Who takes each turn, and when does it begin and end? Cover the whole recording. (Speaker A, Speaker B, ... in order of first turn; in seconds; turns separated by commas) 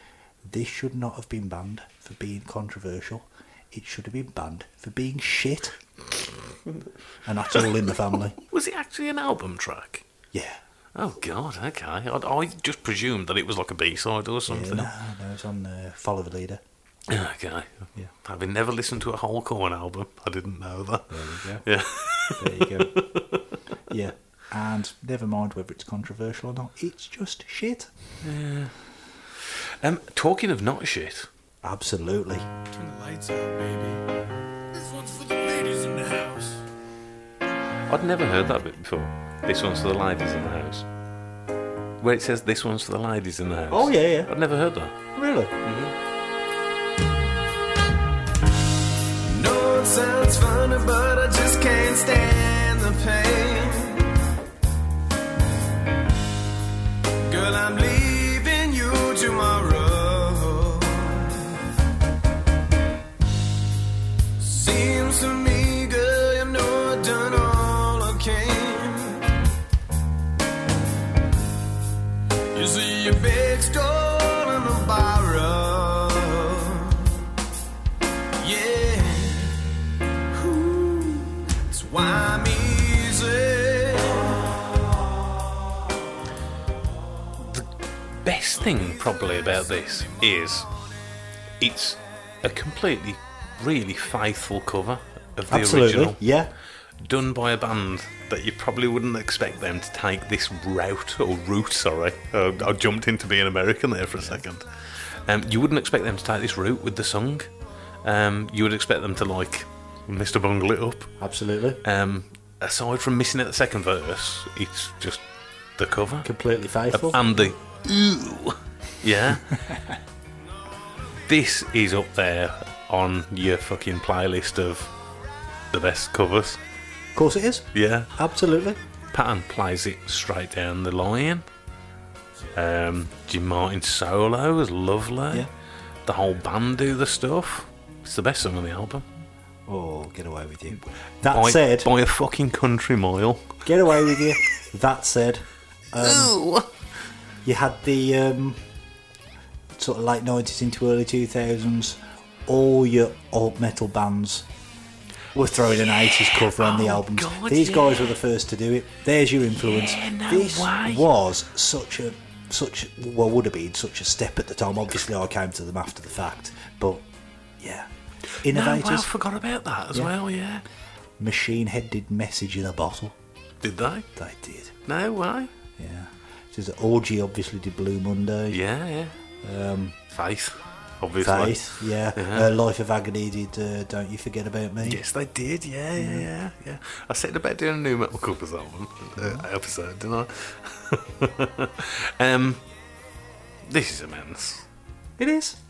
Speaker A: 0.4-5.8, Speaker A: 7.2-8.4, Speaker B: 8.4-10.0, Speaker A: 10.3-10.6, Speaker B: 10.9-14.9, Speaker A: 14.5-16.6, Speaker B: 17.1-23.6, Speaker A: 21.1-21.6, Speaker A: 22.4-23.0, Speaker A: 23.9-27.9, Speaker B: 28.2-28.8, Speaker B: 29.3-31.3, Speaker A: 31.6-32.5, Speaker C: 32.8-34.0, Speaker C: 34.8-36.6, Speaker B: 37.9-40.9, Speaker B: 42.0-45.0, Speaker A: 43.7-44.3, Speaker A: 45.1-45.5, Speaker B: 45.6-45.9, Speaker C: 49.2-54.1, Speaker C: 57.2-61.5, Speaker C: 64.4-69.3, Speaker C: 72.5-77.2, Speaker C: 78.4-79.6, Speaker C: 80.3-84.5, Speaker B: 87.4-87.7, Speaker B: 88.2-90.7, Speaker B: 91.6-96.2, Speaker A: 95.5-96.5, Speaker B: 97.0-107.5, Speaker B: 108.0-111.1, Speaker A: 111.2-111.8, Speaker B: 111.8-115.2, Speaker B: 115.8-116.3, Speaker A: 116.2-117.2, Speaker B: 116.9-119.6, Speaker A: 119.5-119.8, Speaker B: 121.3-124.9, Speaker B: 125.7-126.6, Speaker A: 127.2-128.8, Speaker B: 127.7-128.1, Speaker B: 129.1-131.4, Speaker B: 132.6-135.5, Speaker B: 136.1-139.1, Speaker A: 139.7-141.9, Speaker B: 141.3-143.9, Speaker A: 143.7-146.3, Speaker B: 146.0-146.7, Speaker A: 147.4-148.6, Speaker A: 149.8-154.5, Speaker A: 155.3-167.1, Speaker B: 156.6-158.2, Speaker B: 159.5-161.1, Speaker A: 167.6-167.9, Speaker A: 168.4-169.1, Speaker B: 168.4-170.6, Speaker A: 171.2-173.2, Speaker B: 173.6-174.1, Speaker A: 174.2-174.8, Speaker B: 174.9-175.5, Speaker A: 175.8-178.6, Speaker B: 178.5-179.2, Speaker A: 179.4-180.0, Speaker B: 180.1-182.5, Speaker A: 181.2-185.0, Speaker B: 184.8-192.6, Speaker A: 186.0-186.2, Speaker A: 189.2-189.4, Speaker B: 193.7-194.7, Speaker A: 195.2-195.6